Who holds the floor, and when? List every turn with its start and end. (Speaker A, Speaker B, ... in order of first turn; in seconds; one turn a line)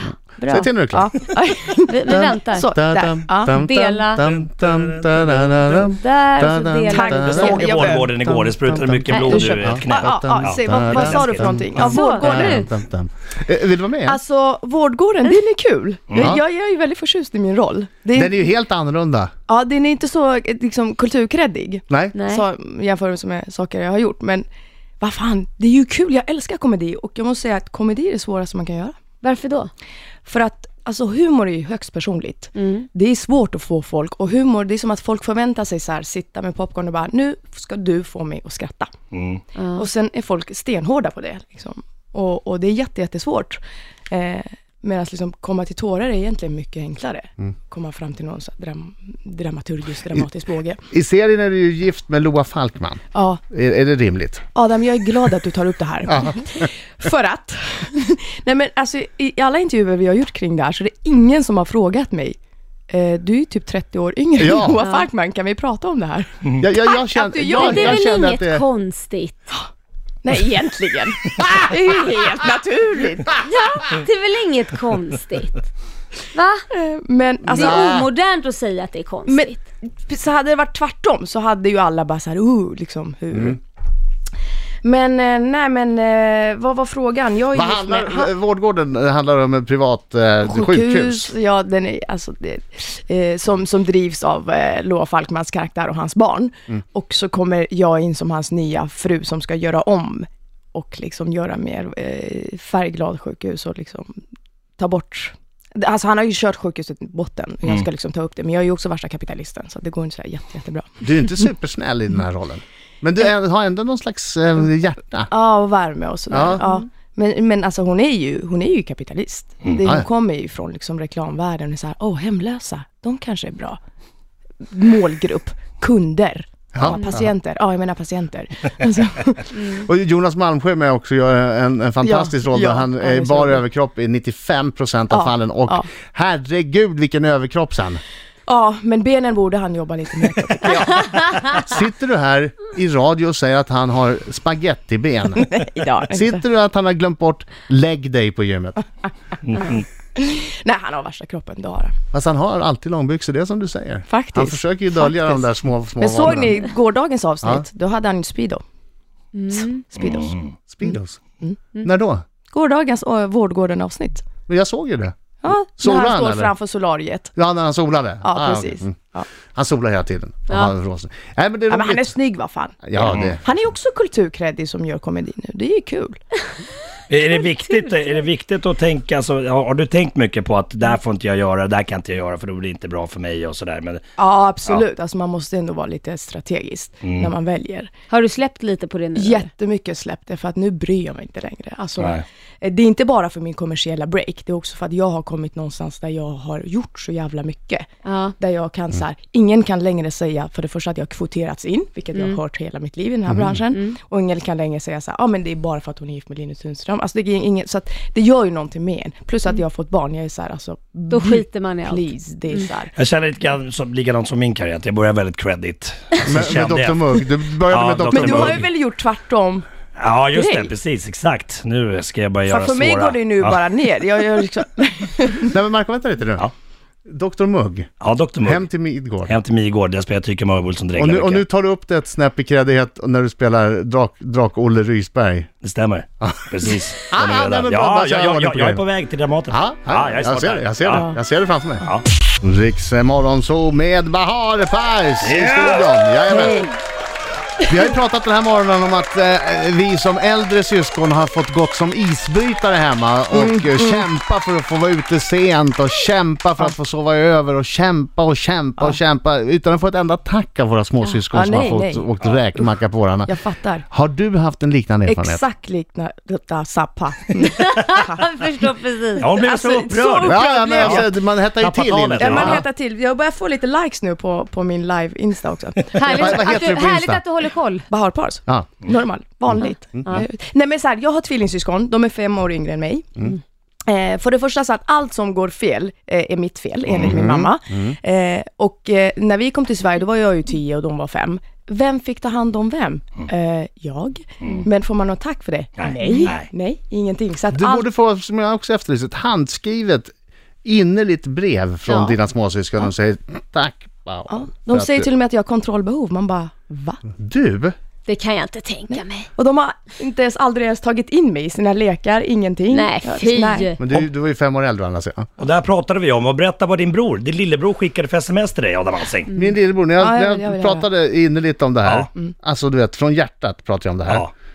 Speaker A: 0.4-3.5
Speaker B: 0.5-1.1
Speaker C: 1.9-2.7
Speaker B: 2.1-14.2
Speaker C: 3.5-4.2
Speaker D: 4.2-5.8
Speaker C: 5.8-7.6
Speaker A: 6.9-12.6
Speaker D: 7.3-12.0
Speaker C: 9.1-9.5
Speaker C: 11.8-12.7
Speaker A: 14.1-18.5
Speaker D: 16.1-16.4
Speaker B: 18.1-19.3
Speaker A: 19.5-24.4
Speaker B: 21.9-22.1
Speaker C: 22.1-22.4
Speaker A: 25.0-29.0
Speaker C: 29.2-29.7
Speaker A: 30.2-38.9
Speaker C: 32.5-32.9
Speaker D: 39.1-39.4
Speaker C: 39.5-39.9
Speaker A: 39.8-50.8
Speaker B: 50.9-54.4
Speaker A: 53.1-53.4
Speaker A: 54.5-62.4
Speaker B: 56.1-56.4
Speaker A: 62.9-68.2
Speaker B: 64.4-64.8
Speaker C: 64.8-65.1
Speaker B: 66.6-68.6
Speaker C: 67.5-69.5
Speaker A: 70.2-73.5
Speaker C: 73.4-75.7
Speaker C: 76.3-76.6
Speaker A: 76.7-77.9
Speaker B: 77.5-78.1
Speaker C: 77.5-79.6
Speaker A: 79.3-83.6
Speaker A: 84.8-88.3
Speaker B: 87.5-91.3
Speaker A: 90.4-104.2
Speaker A: 104.8-111.4
Speaker B: 111.0-115.3
Speaker A: 115.3-123.8
Speaker B: 116.3-116.6
Speaker A: 124.7-129.6
Speaker B: 126.7-127.2
Speaker C: 126.8-127.2
Speaker B: 129.7-138.0
Speaker A: 132.0-133.6
Speaker A: 135.1-135.9
Speaker A: 138.5-141.6
Speaker B: 140.8-145.4
Speaker A: 145.3-146.4
Speaker B: 146.1-148.8
Speaker D: 149.5-149.8
Speaker A: 149.6-151.9
Speaker B: 152.1-156.6
Speaker A: 154.1-155.4
Speaker A: 156.0-158.6
Speaker C: 159.3-159.9
Speaker A: 159.5-160.3
Speaker D: 160.0-160.5
Speaker B: 160.7-161.2
Speaker A: 160.8-161.6
Speaker B: 161.8-162.2
Speaker A: 162.5-164.3
Speaker B: 164.5-165.1
Speaker A: 165.4-167.3
Speaker B: 165.8-166.5
Speaker B: 167.3-168.9
Speaker A: 168.2-169.3
Speaker B: 169.5-172.2
Speaker A: 171.7-176.2
Speaker B: 172.8-173.4
Speaker D: 177.1-184.0
Speaker A: 184.2-187.9
Speaker D: 187.0-187.3
Speaker C: 188.1-189.5
Speaker A: 189.1-212.9
Speaker D: 192.0-192.2
Speaker C: 198.0-198.3
Speaker C: 202.1-202.4
Speaker B: 203.3-203.6
Speaker C: 203.7-204.0
Speaker C: 211.1-212.1
Speaker D: 212.9-218.7
Speaker B: 216.2-218.6
Speaker A: 218.1-219.7
Speaker D: 219.9-223.6
Speaker A: 220.3-220.7
Speaker A: 222.5-225.5
Speaker B: 225.5-226.5
Speaker B: 227.1-227.9
Speaker D: 228.0-228.7
Speaker B: 228.4-229.3
Speaker D: 229.2-231.4
Speaker B: 230.9-235.5
Speaker D: 235.6-241.1
Speaker B: 237.1-238.8
Speaker B: 239.5-241.8
Speaker A: 240.9-241.2
Speaker B: 242.4-246.7
Speaker D: 245.2-245.9
Speaker A: 246.3-246.7
Speaker B: 247.7-263.3
Speaker A: 253.3-254.1
Speaker A: 261.3-262.7
Speaker A: 263.3-263.9
Speaker B: 263.9-265.4
Speaker A: 265.1-268.2
Speaker C: 267.4-269.3
Speaker D: 269.2-272.6
Speaker A: 269.2-271.1
Speaker B: 270.2-272.6
Speaker A: 272.2-276.8
Speaker C: 275.9-277.9
Speaker B: 276.1-277.2
Speaker A: 277.9-283.2
Speaker A: 283.9-297.9
Speaker D: 286.9-287.2
Speaker B: 287.0-287.9
Speaker D: 295.8-296.5
Speaker B: 297.5-300.1
Speaker B: 300.6-305.1
Speaker A: 301.9-302.2
Speaker A: 304.3-307.0
Speaker B: 307.1-307.7
Speaker C: 308.1-309.3
Speaker A: 308.9-313.7
Speaker C: 312.7-313.8
Speaker B: 313.8-315.3
Speaker D: 315.4-319.3
Speaker B: 319.3-324.3
Speaker A: 320.0-320.9